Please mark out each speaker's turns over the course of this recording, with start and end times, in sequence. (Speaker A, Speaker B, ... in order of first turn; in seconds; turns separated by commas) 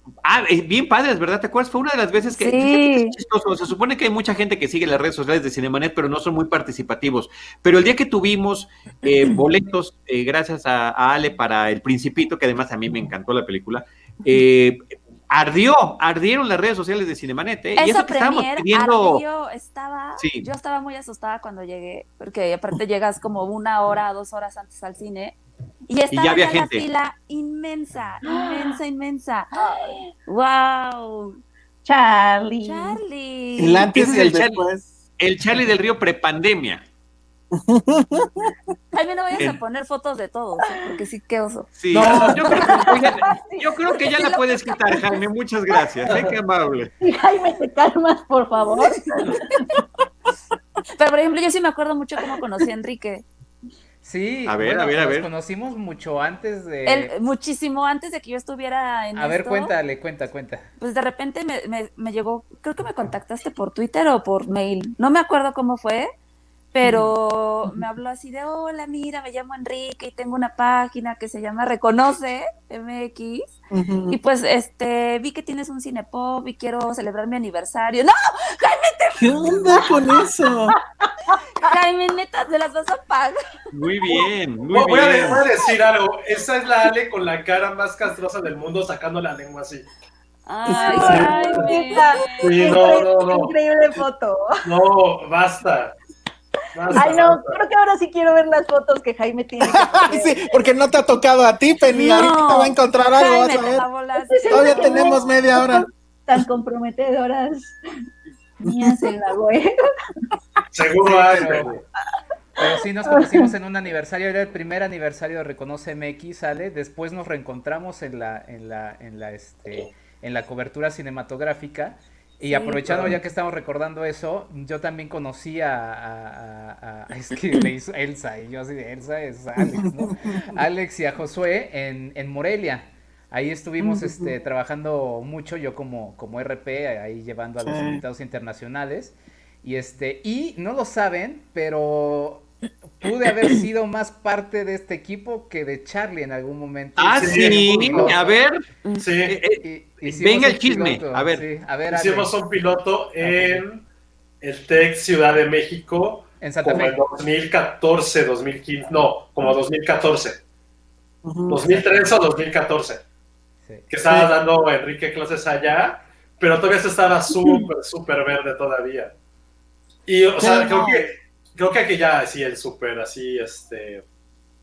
Speaker A: 0.2-19.2, Speaker B: 2.4-3.2, Speaker B: 17.8-29.6, Speaker A: 20.2-20.4, Speaker A: 26.1-26.9, Speaker C: 28.3-28.8, Speaker C: 29.6-30.0, Speaker B: 30.2-31.4, Speaker C: 31.8-33.0, Speaker B: 32.6-33.9, Speaker D: 33.6-34.9, Speaker A: 33.9-34.6, Speaker A: 35.2-36.8, Speaker D: 37.5-38.5, Speaker B: 38.9-41.7, Speaker A: 41.8-46.9, Speaker E: 41.9-42.5, Speaker C: 42.5-44.4, Speaker B: 42.6-42.9, Speaker C: 47.0-49.8, Speaker B: 51.0-53.2, Speaker F: 54.0-57.1, Speaker A: 54.5-55.3, Speaker B: 56.9-59.7, Speaker F: 59.1-60.7, Speaker B: 60.8-66.1, Speaker B: 66.7-73.5, Speaker D: 73.7-74.2, Speaker B: 74.1-80.3, Speaker D: 79.2-80.8, Speaker B: 81.6-83.4, Speaker A: 83.7-85.4, Speaker E: 84.7-89.9, Speaker B: 90.5-92.7, Speaker D: 90.6-91.3, Speaker C: 90.7-94.6, Speaker E: 91.0-91.7, Speaker E: 92.4-93.5, Speaker E: 94.6-95.9, Speaker E: 96.7-97.6, Speaker C: 96.9-100.5, Speaker D: 99.6-103.9, Speaker B: 101.9-105.2, Speaker C: 104.3-107.8, Speaker D: 104.5-105.9, Speaker C: 108.6-109.7, Speaker E: 110.7-111.8, Speaker D: 111.1-111.5, Speaker F: 111.1-111.7, Speaker F: 112.6-148.4, Speaker C: 113.1-113.5, Speaker C: 122.5-122.8, Speaker D: 129.8-130.5, Speaker D: 133.8-134.3, Speaker D: 137.6-138.0, Speaker A: 147.0-148.6, Speaker E: 147.1-148.2, Speaker E: 149.0-149.4, Speaker A: 149.2-151.5, Speaker F: 149.6-152.3, Speaker E: 151.9-153.8, Speaker F: 153.2-153.6, Speaker E: 154.4-160.4, Speaker F: 156.4-157.0, Speaker D: 161.2-161.8, Speaker E: 161.5-163.0, Speaker E: 163.9-169.1, Speaker D: 164.0-164.3, Speaker E: 170.1-174.0, Speaker D: 170.4-171.1